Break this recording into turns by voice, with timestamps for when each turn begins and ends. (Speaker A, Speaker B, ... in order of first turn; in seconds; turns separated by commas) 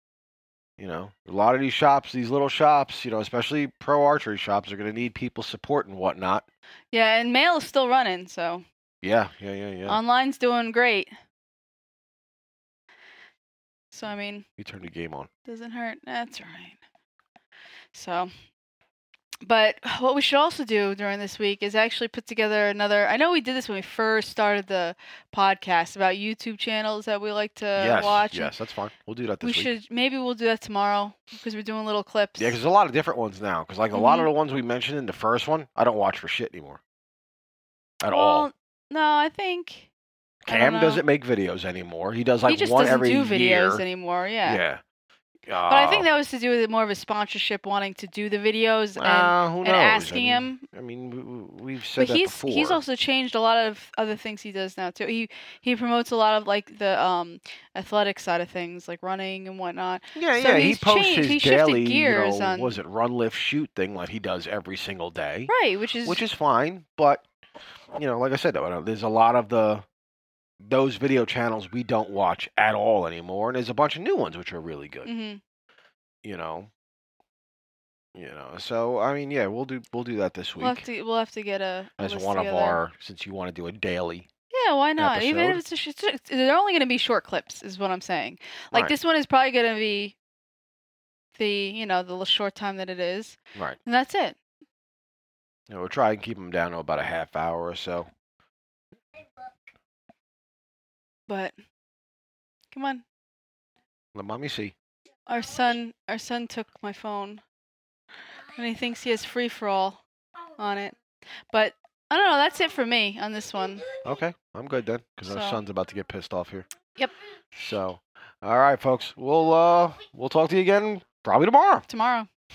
Speaker A: 0.8-6.5, Speaker B: 6.9-8.7, Speaker A: 9.0-10.0, Speaker B: 9.9-11.1, Speaker B: 13.9-14.4, Speaker A: 14.6-15.3, Speaker B: 15.5-16.8, Speaker B: 17.9-18.3, Speaker B: 19.4-28.5, Speaker A: 27.8-29.7, Speaker B: 29.4-32.6, Speaker A: 32.4-36.8, Speaker B: 33.9-34.3, Speaker A: 38.0-38.5, Speaker B: 38.1-39.9, Speaker A: 40.5-43.9, Speaker B: 40.5-41.0, Speaker B: 42.5-44.6, Speaker A: 44.4-44.8, Speaker A: 45.5-46.1, Speaker B: 45.7-50.6, Speaker A: 49.0-52.8, Speaker B: 52.0-62.8, Speaker A: 60.1-65.5, Speaker B: 65.5-66.2, Speaker A: 66.0-67.2, Speaker A: 68.0-69.8, Speaker A: 70.6-75.1, Speaker B: 75.0-75.4, Speaker A: 76.2-76.7, Speaker A: 78.2-80.8, Speaker B: 80.6-82.8, Speaker A: 82.0-84.3, Speaker B: 84.5-90.2, Speaker A: 85.0-85.6, Speaker B: 91.4-94.4, Speaker A: 95.7-98.1, Speaker B: 101.3-101.5, Speaker B: 102.7-103.0, Speaker A: 104.1-104.7, Speaker B: 105.3-107.4, Speaker B: 108.5-110.0, Speaker B: 110.6-111.0, Speaker B: 111.5-113.8, Speaker A: 114.0-116.7, Speaker B: 115.3-115.6, Speaker A: 117.6-121.9, Speaker B: 121.9-122.3